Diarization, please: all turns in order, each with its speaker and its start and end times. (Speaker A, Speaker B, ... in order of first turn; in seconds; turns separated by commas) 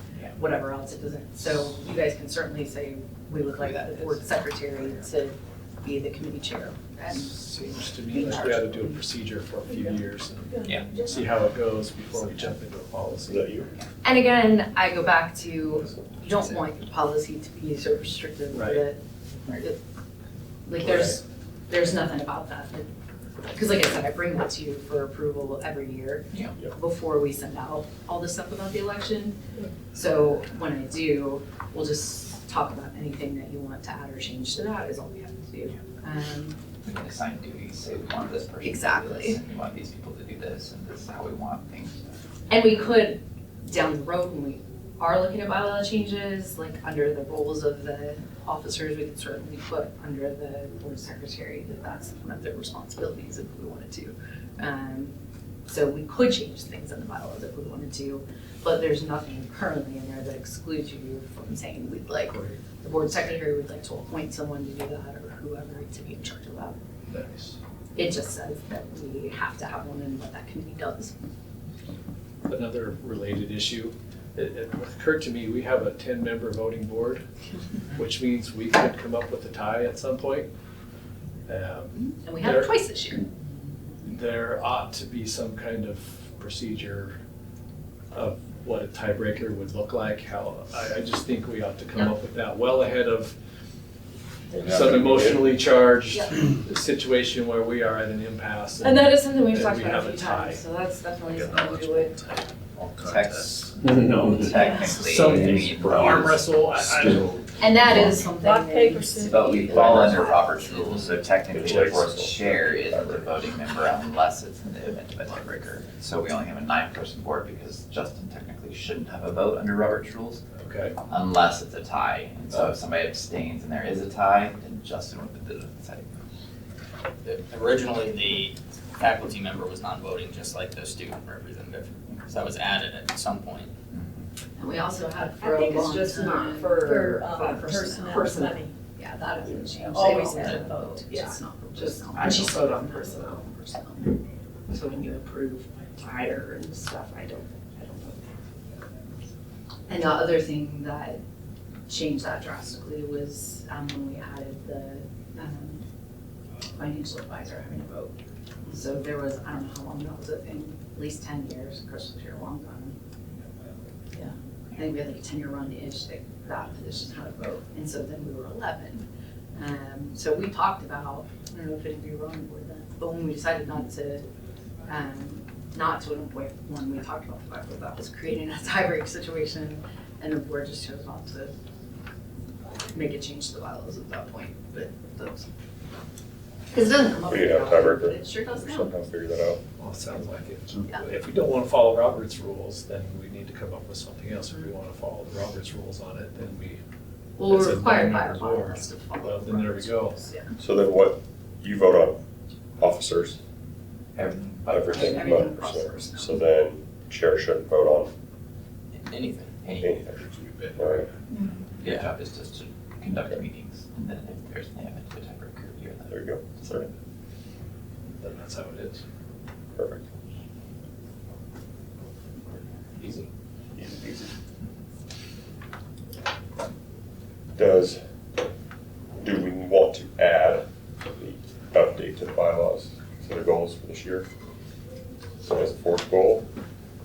Speaker A: 0.3-7.4, Speaker B: 3.4-5.0, Speaker C: 7.1-13.6, Speaker A: 8.1-9.0, Speaker D: 9.7-9.9, Speaker D: 10.5-11.2, Speaker B: 10.7-10.9, Speaker E: 13.3-13.7, Speaker A: 14.0-19.0, Speaker C: 18.5-18.9, Speaker A: 19.5-19.8, Speaker A: 20.6-22.9, Speaker C: 20.8-21.1, Speaker A: 23.5-29.4, Speaker A: 29.9-36.6, Speaker B: 36.8-42.0, Speaker A: 38.6-39.4, Speaker A: 42.5-55.1, Speaker A: 55.7-66.8, Speaker C: 62.3-62.6, Speaker C: 67.1-67.6, Speaker A: 67.9-71.2, Speaker C: 72.5-77.3, Speaker C: 77.9-80.5, Speaker C: 81.5-82.8, Speaker A: 82.0-83.5, Speaker C: 84.0-87.2, Speaker C: 88.1-93.3, Speaker C: 94.5-100.6, Speaker A: 98.8-102.1, Speaker F: 101.3-103.7, Speaker B: 103.0-106.5, Speaker C: 103.8-107.5, Speaker D: 104.6-105.0, Speaker F: 105.6-106.2, Speaker F: 106.7-107.4, Speaker A: 107.6-110.8, Speaker D: 108.2-110.6, Speaker B: 109.2-120.4, Speaker E: 111.5-113.3, Speaker C: 120.5-121.0, Speaker B: 121.1-126.1, Speaker G: 127.2-133.7, Speaker A: 134.6-145.8, Speaker D: 135.4-138.7, Speaker D: 139.5-143.4, Speaker G: 140.3-140.6, Speaker D: 146.0-148.2, Speaker A: 149.9-151.2, Speaker A: 151.9-155.8, Speaker A: 156.7-158.2, Speaker A: 158.7-163.0, Speaker A: 164.1-174.2, Speaker A: 174.8-181.5, Speaker A: 182.9-185.5, Speaker A: 186.7-188.9, Speaker E: 187.3-189.6, Speaker C: 189.8-196.8, Speaker A: 197.4-200.5, Speaker C: 197.4-200.2, Speaker E: 200.6-202.2, Speaker E: 202.8-203.4, Speaker B: 204.2-205.3, Speaker E: 204.6-208.1, Speaker A: 204.7-206.4, Speaker G: 208.9-209.6, Speaker B: 209.6-210.0, Speaker E: 209.8-211.1, Speaker F: 210.2-211.0, Speaker B: 211.4-216.2, Speaker E: 213.1-213.4, Speaker E: 216.1-216.9, Speaker C: 218.2-219.0, Speaker E: 219.7-220.0, Speaker E: 223.7-224.3, Speaker E: 227.6-228.0, Speaker E: 229.2-234.3, Speaker E: 235.4-236.5